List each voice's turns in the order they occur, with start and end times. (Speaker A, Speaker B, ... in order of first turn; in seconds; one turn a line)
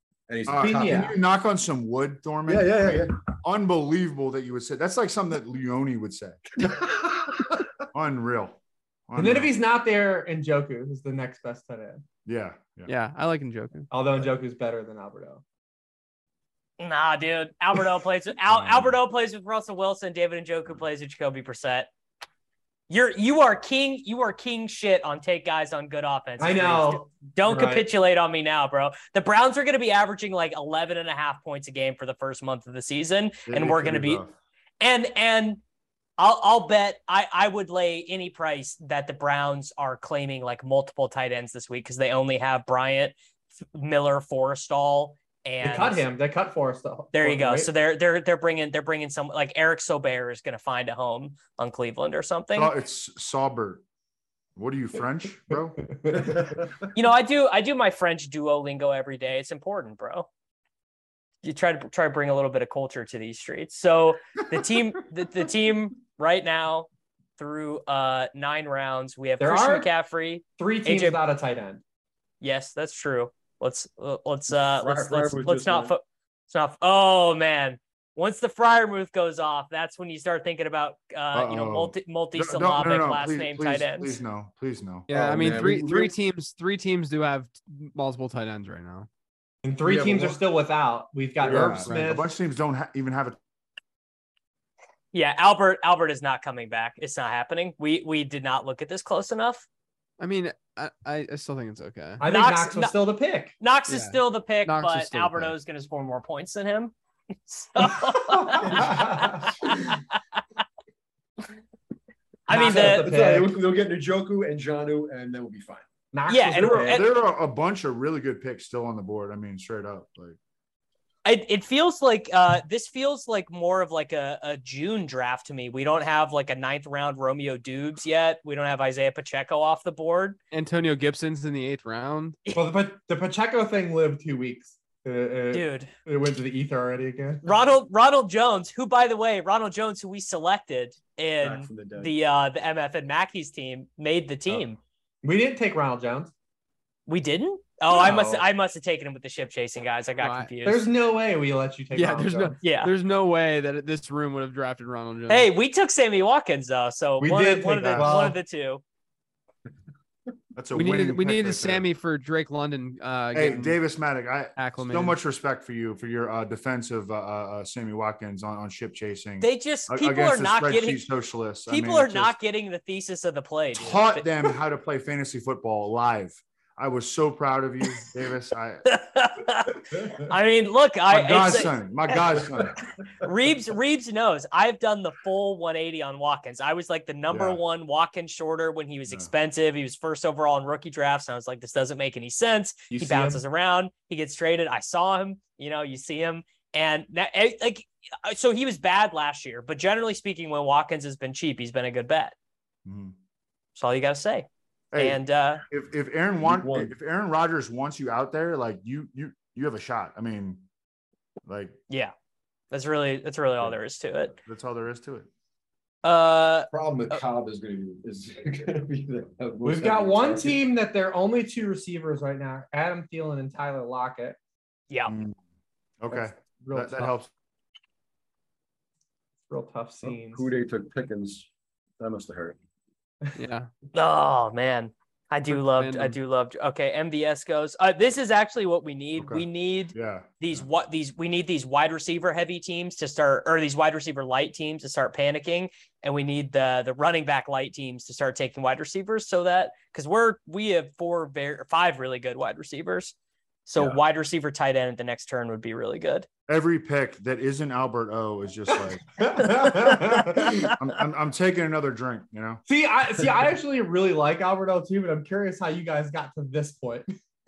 Speaker A: 0.3-1.1
Speaker B: 0.5-6.4
Speaker C: 0.6-1.1
Speaker A: 2.5-3.2
Speaker A: 6.6-7.6
Speaker B: 7.9-9.5
Speaker C: 9.2-12.0
Speaker B: 12.2-12.9
Speaker D: 12.9-13.9
Speaker C: 13.9-15.4
Speaker E: 16.8-21.9
Speaker B: 18.5-19.0
Speaker E: 22.9-34.2
Speaker C: 26.4-27.9
Speaker B: 33.5-34.3
Speaker E: 34.8-35.6
Speaker E: 36.2-43.1
Speaker E: 43.7-46.0
Speaker C: 45.6-47.7
Speaker E: 47.1-52.7
Speaker B: 52.5-53.8
Speaker B: 54.6-55.8
Speaker C: 55.9-56.4
Speaker A: 56.2-56.9
Speaker E: 57.0-60.3
Speaker E: 61.4-71.2
Speaker C: 69.4-69.9
Speaker C: 70.6-71.8
Speaker E: 72.4-84.2
Speaker A: 74.5-75.9
Speaker B: 81.3-85.1
Speaker A: 85.1-86.1
Speaker D: 85.1-89.1
Speaker C: 89.6-92.3
Speaker A: 89.8-90.4
Speaker B: 91.4-93.4
Speaker A: 91.5-91.7
Speaker E: 95.1-99.7
Speaker D: 100.2-102.2
Speaker C: 102.2-103.5
Speaker E: 102.2-103.0
Speaker E: 103.6-106.9
Speaker D: 103.9-105.5
Speaker E: 107.5-110.0
Speaker C: 108.2-109.7
Speaker A: 108.6-108.9
Speaker E: 112.5-113.1
Speaker C: 112.5-113.6
Speaker A: 112.6-115.8
Speaker C: 116.1-117.0
Speaker E: 116.3-117.1
Speaker B: 116.6-120.4
Speaker E: 121.2-130.4
Speaker D: 130.5-132.4
Speaker C: 132.6-137.4
Speaker E: 135.5-135.9
Speaker E: 137.4-144.8
Speaker A: 141.4-142.1
Speaker C: 145.2-146.3
Speaker E: 147.1-150.9
Speaker C: 147.9-148.4
Speaker D: 150.2-150.5
Speaker C: 150.7-152.6
Speaker D: 151.9-155.5
Speaker E: 152.6-152.9
Speaker E: 155.3-158.8
Speaker C: 157.2-158.4
Speaker B: 157.8-158.3
Speaker B: 160.6-161.9
Speaker D: 160.7-163.8
Speaker B: 163.3-172.4
Speaker D: 164.6-165.2
Speaker E: 169.4-171.1
Speaker E: 171.7-174.3
Speaker B: 173.8-178.8
Speaker E: 178.9-181.8
Speaker B: 181.1-182.8
Speaker E: 183.2-202.3
Speaker B: 187.3-187.6
Speaker C: 192.9-193.4
Speaker B: 202.8-203.2
Speaker E: 203.8-205.6
Speaker B: 204.9-210.7
Speaker A: 206.4-206.9
Speaker B: 211.5-211.8
Speaker E: 212.7-214.3
Speaker B: 214.3-215.3
Speaker E: 216.0-217.2
Speaker A: 216.7-220.6
Speaker C: 219.6-224.4
Speaker B: 225.1-225.4
Speaker B: 226.0-227.3
Speaker C: 226.1-227.2
Speaker C: 229.5-230.5
Speaker A: 230.1-231.5
Speaker A: 232.0-232.6
Speaker D: 233.3-233.7
Speaker E: 233.9-253.2
Speaker D: 235.5-236.2
Speaker B: 239.2-240.7
Speaker E: 253.7-256.3
Speaker B: 256.5-259.9
Speaker C: 259.2-260.7
Speaker E: 260.5-260.8
Speaker B: 260.7-262.6
Speaker C: 262.7-267.1